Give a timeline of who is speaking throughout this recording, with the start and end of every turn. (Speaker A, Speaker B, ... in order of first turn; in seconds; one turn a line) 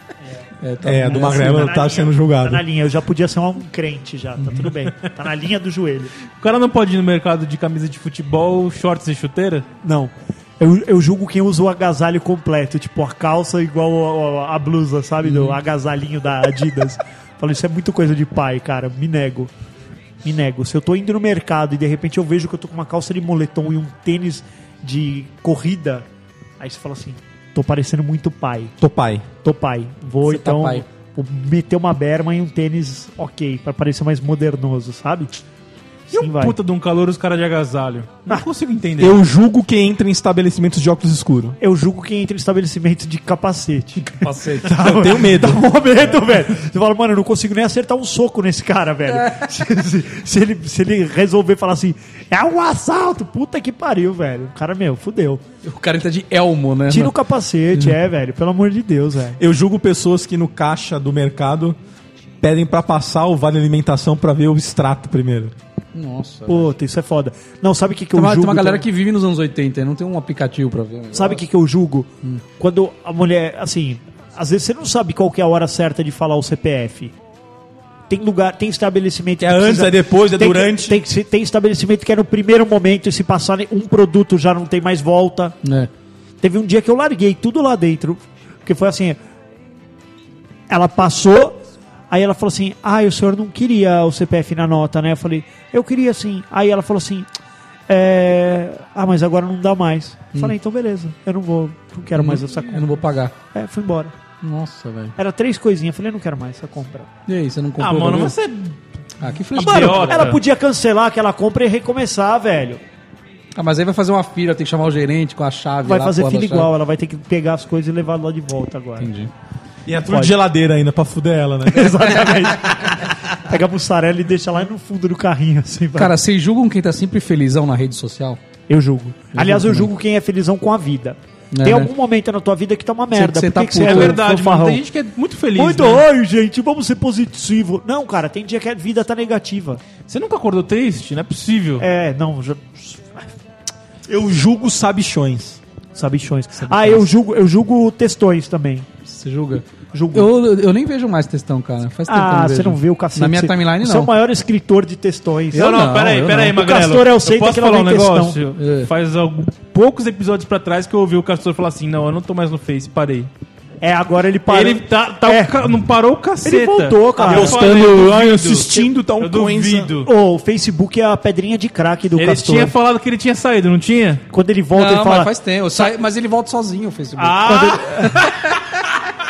Speaker A: 0.6-1.7
Speaker B: 0.8-2.6
Speaker C: 1.0-6.1
Speaker D: 6.4-9.7
Speaker C: 9.8-19.5
Speaker C: 20.2-26.1
Speaker C: 26.6-28.7
Speaker B: 28.8-29.3
Speaker C: 29.4-35.3
Speaker A: 30.2-30.9
Speaker D: 36.1-39.2
Speaker C: 36.1-36.6
Speaker B: 39.0-41.6
Speaker C: 41.6-55.4
Speaker A: 44.0-45.0
Speaker B: 44.8-45.6
Speaker A: 49.1-49.5
Speaker A: 55.6-57.1
Speaker C: 56.9-59.4
Speaker B: 59.4-61.8
Speaker B: 62.4-65.5
Speaker A: 65.9-66.7
Speaker C: 66.5-68.9
Speaker A: 68.1-71.4
Speaker C: 71.1-77.1
Speaker C: 78.1-85.6
Speaker B: 79.4-81.0
Speaker A: 85.6-85.9
Speaker C: 86.4-89.2
Speaker C: 90.7-97.3
Speaker C: 97.9-104.1
Speaker A: 102.2-103.3
Speaker A: 104.4-105.2
Speaker C: 105.2-107.1
Speaker A: 107.3-108.4
Speaker D: 107.8-108.8
Speaker A: 109.2-110.3
Speaker D: 109.5-110.4
Speaker C: 109.5-112.8
Speaker A: 113.5-116.7
Speaker C: 115.8-119.1
Speaker A: 119.0-119.3
Speaker B: 119.9-122.3
Speaker C: 120.0-120.3
Speaker C: 121.7-126.1
Speaker A: 125.9-128.4
Speaker C: 128.7-134.8
Speaker A: 129.3-129.9
Speaker A: 131.5-131.9
Speaker A: 133.1-134.2
Speaker D: 133.8-136.0
Speaker C: 135.5-139.8
Speaker D: 140.1-141.8
Speaker C: 141.8-143.3
Speaker B: 144.1-145.6
Speaker C: 145.9-148.9
Speaker A: 146.7-147.1
Speaker A: 149.1-154.1
Speaker C: 149.9-150.3
Speaker C: 152.1-155.7
Speaker A: 155.5-156.6
Speaker D: 155.5-163.3
Speaker C: 156.4-158.4
Speaker A: 158.5-158.9
Speaker C: 163.8-165.6
Speaker D: 164.5-170.1
Speaker C: 166.4-167.6
Speaker B: 167.2-169.9
Speaker C: 170.0-172.7
Speaker D: 172.1-174.2
Speaker C: 174.3-175.3
Speaker A: 174.7-178.5
Speaker D: 177.2-178.3
Speaker C: 177.4-178.3